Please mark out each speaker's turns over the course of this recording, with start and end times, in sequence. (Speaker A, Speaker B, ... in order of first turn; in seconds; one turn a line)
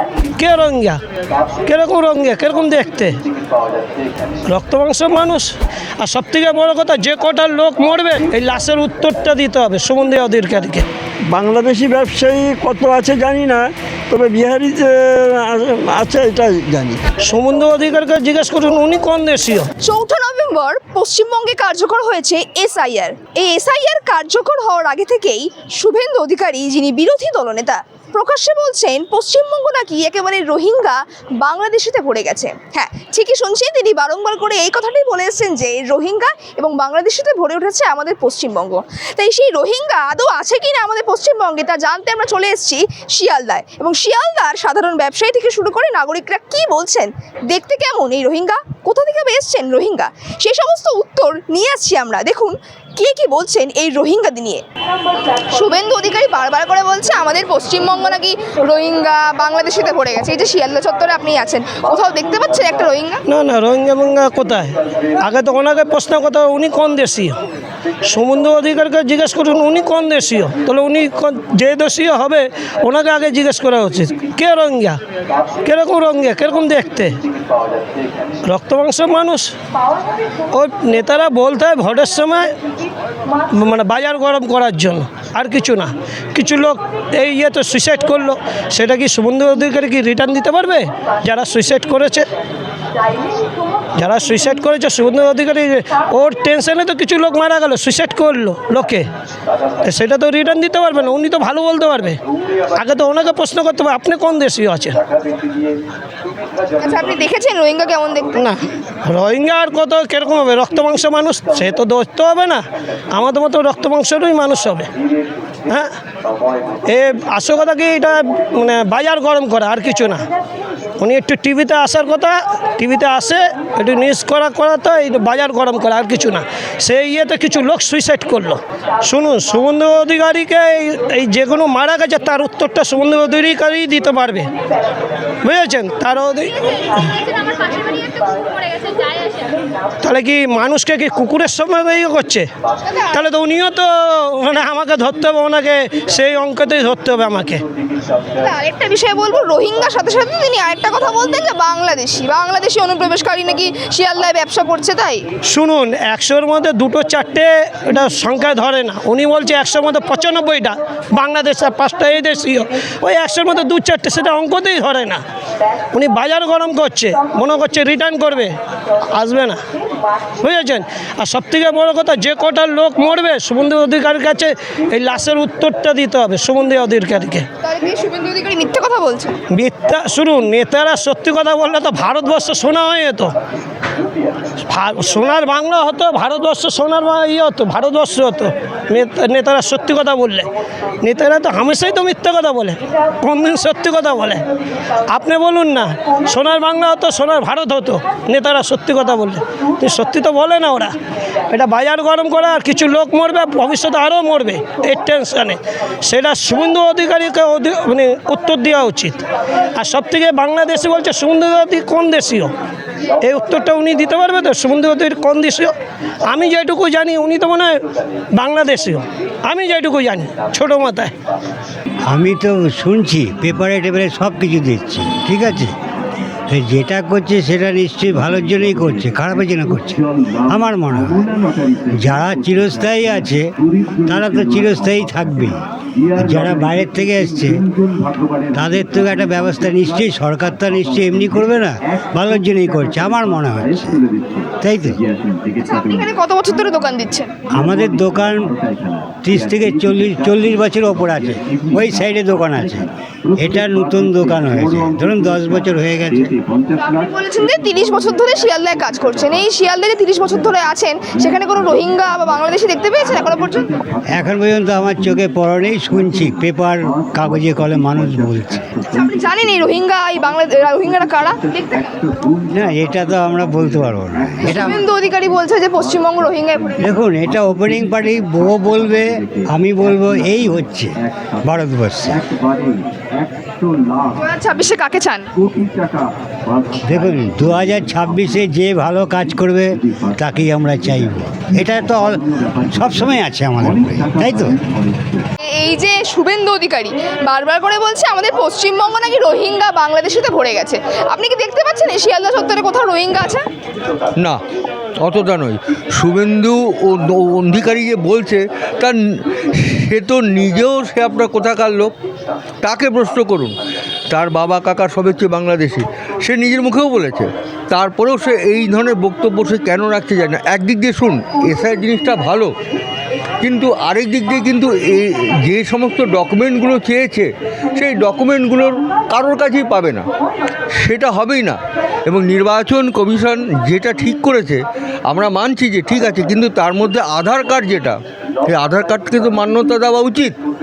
Speaker A: 0.4-1.0
Speaker A: 1.7-3.2
Speaker A: 4.5-10.9
Speaker B: 11.3-17.0
Speaker A: 17.2-19.7
Speaker C: 19.8-54.6
Speaker C: 55.5-63.2
Speaker A: 63.3-67.4
Speaker A: 68.1-75.0
Speaker A: 75.6-77.2
Speaker A: 78.5-79.5
Speaker A: 80.5-82.5
Speaker A: 83.5-92.3
Speaker A: 94.0-99.0
Speaker A: 99.8-102.2
Speaker A: 102.8-105.0
Speaker C: 106.8-108.3
Speaker A: 108.4-114.9
Speaker A: 115.7-115.9
Speaker A: 116.9-120.2
Speaker A: 121.0-134.5
Speaker A: 135.4-136.6
Speaker C: 136.7-139.5
Speaker A: 140.0-142.5
Speaker C: 142.9-143.3
Speaker A: 143.1-147.7
Speaker C: 148.4-155.2
Speaker A: 155.4-165.2
Speaker A: 165.9-168.6
Speaker A: 169.1-169.6
Speaker A: 170.4-177.5
Speaker C: 177.6-179.3
Speaker A: 179.5-183.3
Speaker A: 184.7-190.5
Speaker A: 191.0-194.4
Speaker A: 195.1-201.0
Speaker A: 201.5-209.2
Speaker A: 209.8-212.5
Speaker A: 213.2-215.7
Speaker A: 216.3-217.8
Speaker A: 218.4-221.1
Speaker D: 222.1-225.7
Speaker D: 226.5-231.2
Speaker D: 231.9-233.5
Speaker D: 234.1-235.6
Speaker D: 236.2-237.6
Speaker D: 238.5-244.0
Speaker D: 244.6-245.0
Speaker C: 245.6-247.3
Speaker D: 247.5-248.6
Speaker D: 249.2-256.3
Speaker C: 256.8-263.7
Speaker D: 264.1-268.8
Speaker C: 268.9-272.0
Speaker D: 272.5-274.8
Speaker C: 274.4-276.7
Speaker D: 276.8-282.2
Speaker C: 284.1-285.3
Speaker D: 286.9-294.6
Speaker C: 295.5-303.4
Speaker E: 305.0-311.9
Speaker E: 312.6-313.5
Speaker E: 314.1-322.5
Speaker E: 323.4-330.1
Speaker E: 330.8-340.4